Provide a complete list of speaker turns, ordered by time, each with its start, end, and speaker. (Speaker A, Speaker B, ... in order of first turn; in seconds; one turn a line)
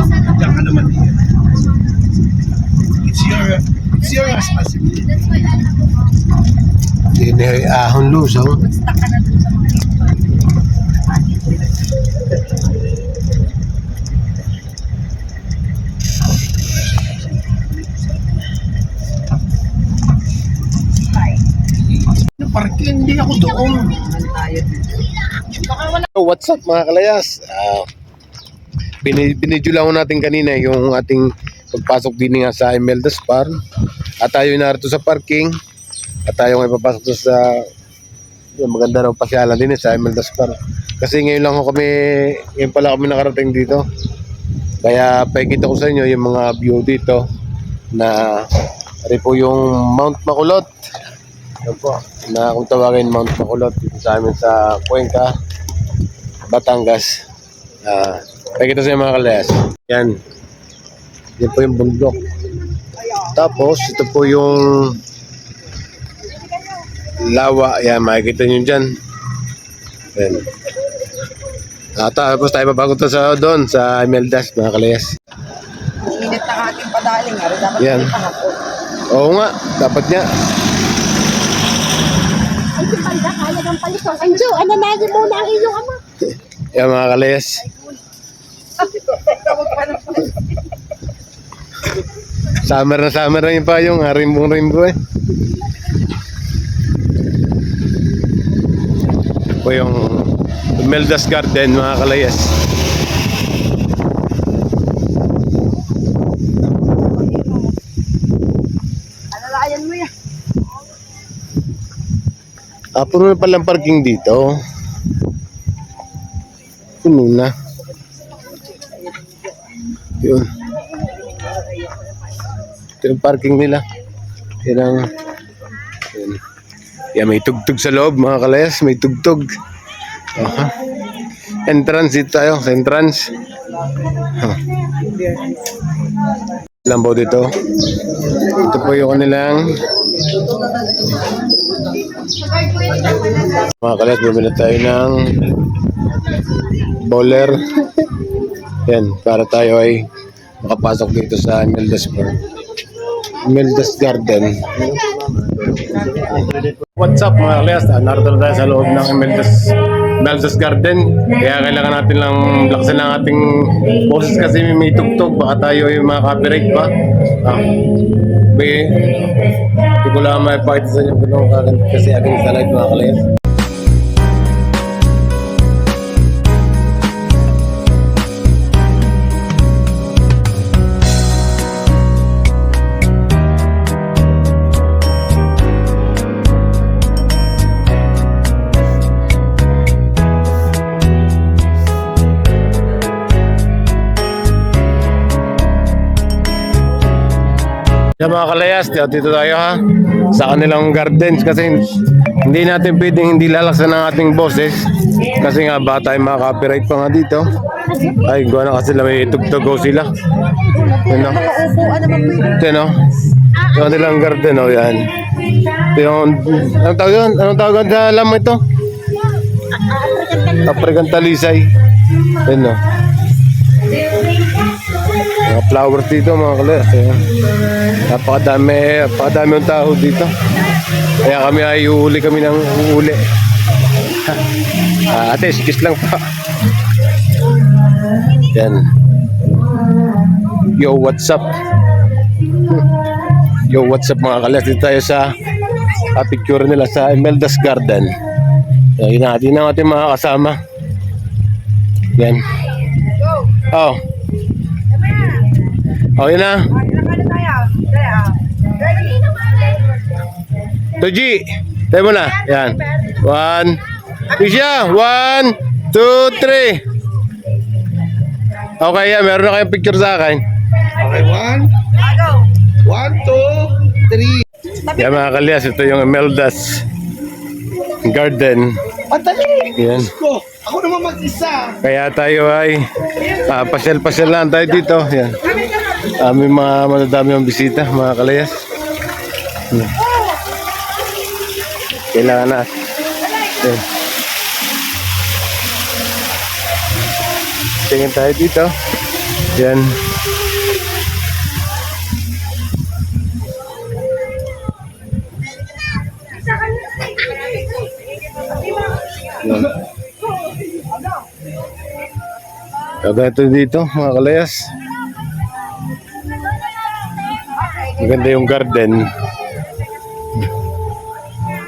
Speaker A: 0.2-1.2
Speaker A: 3.0-5.1
Speaker B: 7.1-8.6
Speaker C: 8.5-10.1
Speaker C: 11.1-11.5
Speaker C: 21.1-21.3
Speaker A: 22.3-23.8
Speaker C: 23.5-25.0
Speaker B: 25.9-27.9
Speaker B: 29.0-33.6
Speaker B: 34.2-35.6
Speaker B: 36.2-37.7
Speaker B: 38.6-43.9
Speaker B: 44.8-47.2
Speaker B: 47.9-50.7
Speaker B: 51.6-55.3
Speaker B: 56.5-57.3
Speaker B: 57.8-60.2
Speaker B: 61.4-62.3
Speaker B: 63.1-65.0
Speaker B: 67.0-68.9
Speaker B: 70.1-70.5
Speaker B: 72.0-75.1
Speaker C: 76.0-78.6
Speaker B: 77.8-78.1
Speaker B: 79.1-80.3
Speaker D: 82.8-86.0
Speaker B: 86.7-87.7
Speaker C: 89.0-90.3
Speaker B: 92.5-95.0
Speaker B: 99.4-102.6
Speaker C: 109.3-110.1
Speaker B: 113.0-114.6
Speaker B: 117.0-117.5
Speaker B: 120.2-120.6
Speaker C: 121.3-122.0
Speaker B: 123.0-123.8
Speaker B: 124.6-125.1
Speaker B: 126.1-126.4
Speaker B: 127.1-129.5
Speaker B: 130.3-130.8
Speaker B: 131.6-133.3
Speaker B: 134.3-134.7
Speaker B: 136.8-137.6
Speaker B: 138.3-140.0
Speaker B: 143.7-146.0
Speaker B: 146.8-148.2
Speaker B: 148.8-150.1
Speaker B: 150.6-152.4
Speaker B: 153.2-173.2
Speaker B: 198.2-207.6
Speaker B: 208.2-210.1
Speaker D: 210.7-211.0
Speaker B: 211.0-211.5
Speaker C: 211.4-212.5
Speaker D: 211.6-212.3
Speaker B: 212.4-218.6
Speaker D: 219.8-220.7
Speaker B: 220.6-221.7
Speaker B: 222.3-222.8
Speaker B: 225.3-230.3
Speaker B: 231.1-233.2
Speaker B: 234.1-236.3
Speaker B: 238.4-238.9
Speaker B: 240.6-241.6
Speaker B: 242.5-250.6
Speaker B: 252.1-252.8
Speaker C: 253.1-253.6
Speaker B: 253.6-254.0
Speaker C: 254.9-255.5
Speaker B: 256.1-256.7
Speaker C: 256.7-259.8
Speaker B: 261.0-266.8
Speaker B: 268.8-270.4
Speaker A: 271.0-271.8
Speaker C: 271.9-272.5
Speaker A: 272.8-274.4
Speaker C: 274.9-275.1
Speaker B: 274.9-276.9
Speaker B: 278.0-278.9
Speaker A: 279.1-281.8
Speaker B: 279.7-280.1
Speaker B: 281.8-285.5
Speaker B: 286.0-288.6
Speaker B: 289.7-289.9
Speaker B: 292.1-292.7
Speaker B: 293.6-293.8
Speaker B: 297.8-298.7
Speaker B: 299.5-299.9
Speaker C: 307.1-309.1
Speaker B: 309.4-309.8
Speaker B: 313.0-314.7
Speaker C: 317.6-318.0
Speaker B: 318.0-319.1